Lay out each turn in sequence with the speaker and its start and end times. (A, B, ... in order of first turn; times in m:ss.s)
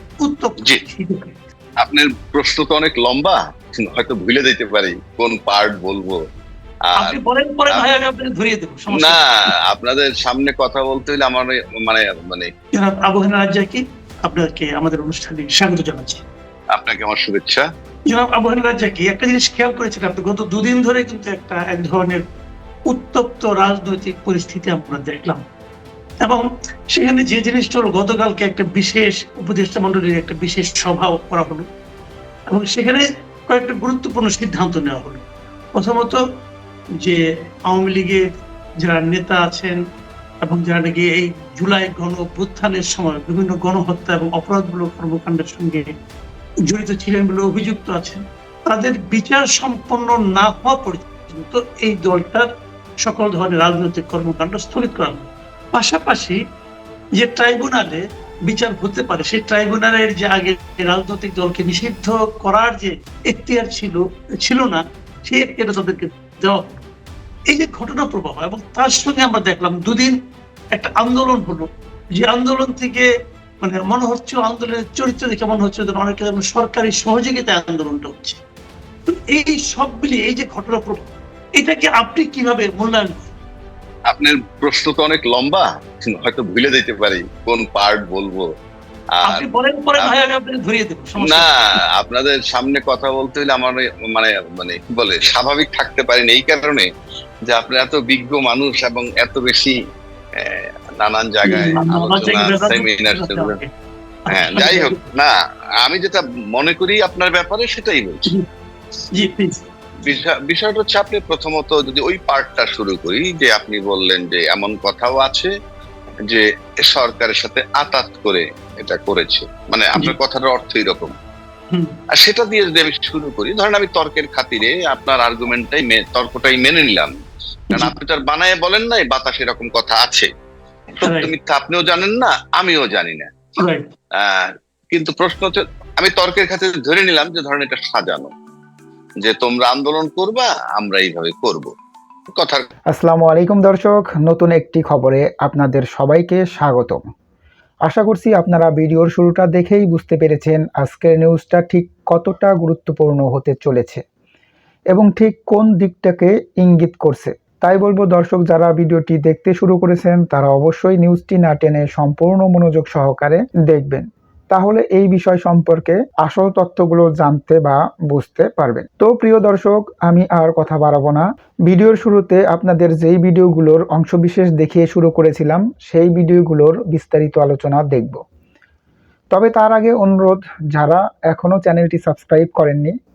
0:00.2-0:01.4 A
0:01.8-0:06.2 B
0:06.9-0:07.2 B
0:07.0-0:09.5 A
0:09.0-0:12.5 B
0:12.8-0:16.2 A
0:16.7-0:17.6 B
0:18.1-0:22.2 A
0:22.9-0:25.4 A
0:26.2-0:31.6 A
0:32.5-0:36.2 A
0:37.0-0:38.2 A
0:38.8-0:39.8 A
0:40.4-0:45.9 A
0:46.6-0:52.5 A
0:53.0-0:56.4 A
0:57.2-1:06.8 A
1:07.5-1:10.2 A
1:10.7-1:13.1 A
1:13.6-1:18.4 A
1:19.1-1:23.1 A
1:24.1-1:28.5 B
1:29.2-1:29.4 B
1:29.2-1:31.8 A
1:31.3-1:36.8 B
1:37.5-1:39.8 B
1:40.4-1:43.5 B
1:41.5-1:43.7 A
1:44.3-1:45.0 A
1:44.3-1:48.3 B
1:49.2-1:49.6 A
1:50.0-1:55.5 B
1:56.3-2:01.1 B
2:02.2-2:07.1 B
2:07.7-2:10.3 B
2:11.0-2:13.6 B
2:11.0-2:11.3 A
2:14.2-2:18.3 B
2:19.2-2:21.7 B
2:22.4-2:22.7 B
2:22.9-2:27.0 C
2:27.9-2:34.0 C
2:34.9-2:58.2 C
2:59.3-3:02.9 C